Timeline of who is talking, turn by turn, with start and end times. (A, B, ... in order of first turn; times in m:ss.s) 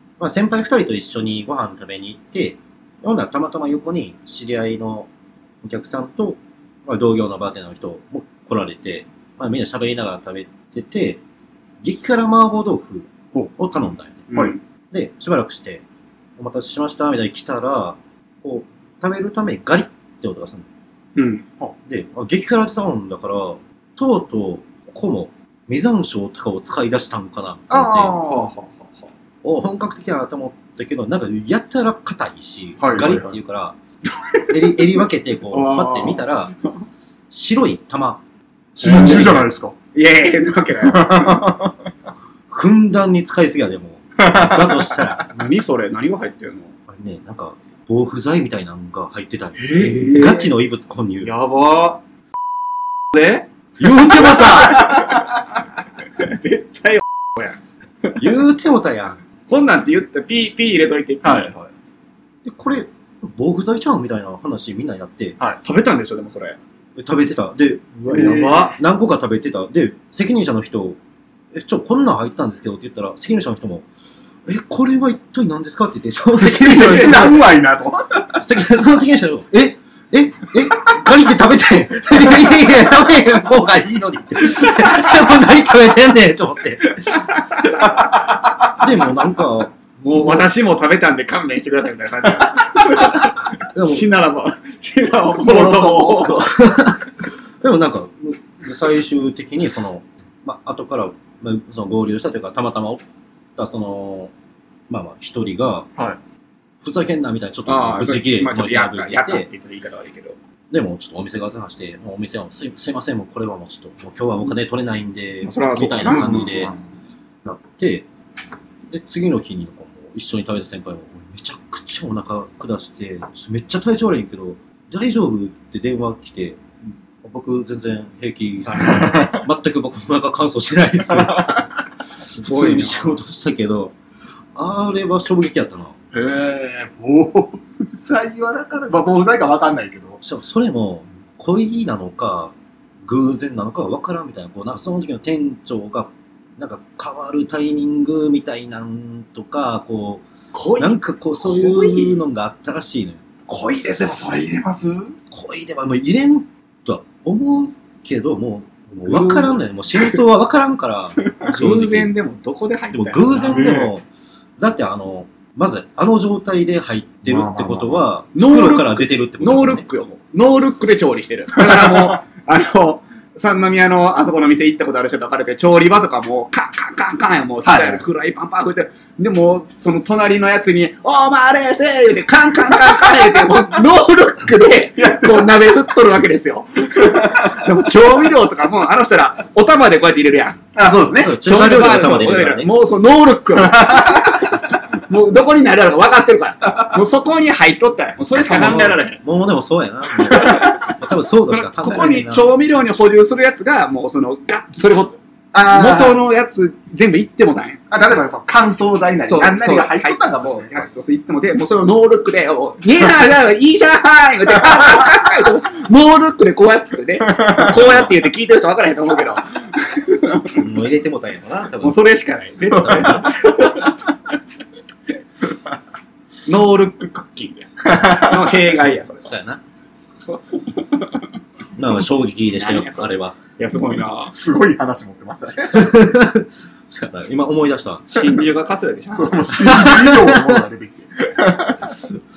0:00.2-0:05.1 A
0:05.6-0:11.2 A
0:11.8-0:14.3 A
0:14.3-0:14.6 B
0:14.9-0:15.8 A
0:16.4-0:20.7 A
0:21.2-0:21.4 B
0:21.8-0:28.2 A
0:27.7-0:28.5 C
0:28.1-0:29.1 B
0:29.4-0:33.8 A
0:32.8-0:33.4 C
0:34.2-0:34.9 B
0:34.5-0:36.5 A
0:35.5-0:36.8 B
0:37.3-0:38.2 A
0:38.8-0:39.7 C
0:38.8-0:39.5 A
0:38.8-0:39.4 B
0:39.9-0:41.5 B
0:40.8-0:41.7 C
0:42.5-0:45.2 A
0:44.2-0:45.1 C
0:45.3-0:46.7 B
0:46.9-0:51.3 A
0:49.6-0:50.0 C
0:49.7-0:50.5 B
0:51.2-0:52.0 B
0:53.1-0:55.3 B
0:53.8-0:54.9 A
0:56.2-0:58.2 B
0:58.2-0:59.2 A
0:59.5-1:01.5 B
1:01.2-1:01.7 C
1:02.4-1:05.4 A
1:05.6-1:06.6 B
1:07.0-1:11.0 A
1:08.0-1:08.8 B
1:08.1-1:08.7 C
1:11.5-1:13.9 A
1:14.4-1:17.5 A
1:16.4-1:18.4 C
1:18.4-1:27.2 A
1:24.6-1:25.1 B
1:27.1-1:27.9 B
1:27.8-1:28.2 C
1:28.7-1:30.5 A
1:30.0-1:36.5 B
1:33.7-1:34.1 A
1:35.4-1:36.4 C
1:36.2-1:43.0 A
1:43.6-1:44.3 A
1:44.9-1:45.9 A
1:46.8-1:49.5 A
1:47.6-1:50.4 B
1:50.7-1:56.7 A
1:55.4-1:56.8 B
1:56.0-1:56.8 C
1:57.4-1:58.1 A
1:58.9-2:06.6 A
2:07.2-2:11.6 A
2:08.7-2:09.4 C
2:11.1-2:11.7 C
2:12.3-2:13.2 B
2:12.4-2:14.0 A
2:14.5-2:16.0 A
2:16.1-2:20.2 C
2:20.2-2:30.2 A
2:30.5-2:32.2 B
2:30.8-2:33.2 A
2:33.5-2:35.2 C
2:35.3-2:42.1 A
2:39.1-2:39.5 C
2:41.4-2:43.7 B
2:42.9-2:44.0 A
2:43.5-2:43.9 C
2:44.6-2:49.8 A
2:47.2-2:48.0 C
2:48.3-3:10.6 B
2:51.6-2:52.0 C
2:57.6-2:58.0 C
3:05.0-3:05.6 C
3:07.0-3:07.6 C
3:10.7-3:11.4 C
3:11.1-3:12.7 A
3:11.4-3:19.2 B
3:13.6-3:14.5 C
3:18.4-3:19.0 C
3:18.5-3:22.6 A
3:20.2-3:20.9 B
3:20.2-3:20.8 C
3:21.4-3:27.8 B
3:25.5-3:26.2 C
3:27.9-3:30.8 C
3:29.2-3:40.6 B
3:34.7-3:35.2 C
3:37.2-3:37.8 C
3:40.5-3:42.0 A
3:41.8-3:44.0 B
3:42.7-3:43.2 A
3:43.1-3:43.5 C
3:46.4-3:49.4 B
3:47.8-3:48.6 C
3:49.2-3:49.7 A
3:50.3-3:51.2 B
3:51.8-3:53.4 A
3:52.5-3:54.3 B
3:54.3-3:56.0 C
3:55.7-3:58.2 A
3:58.1-3:59.9 B
3:59.1-4:02.0 C
3:59.6-4:00.6 A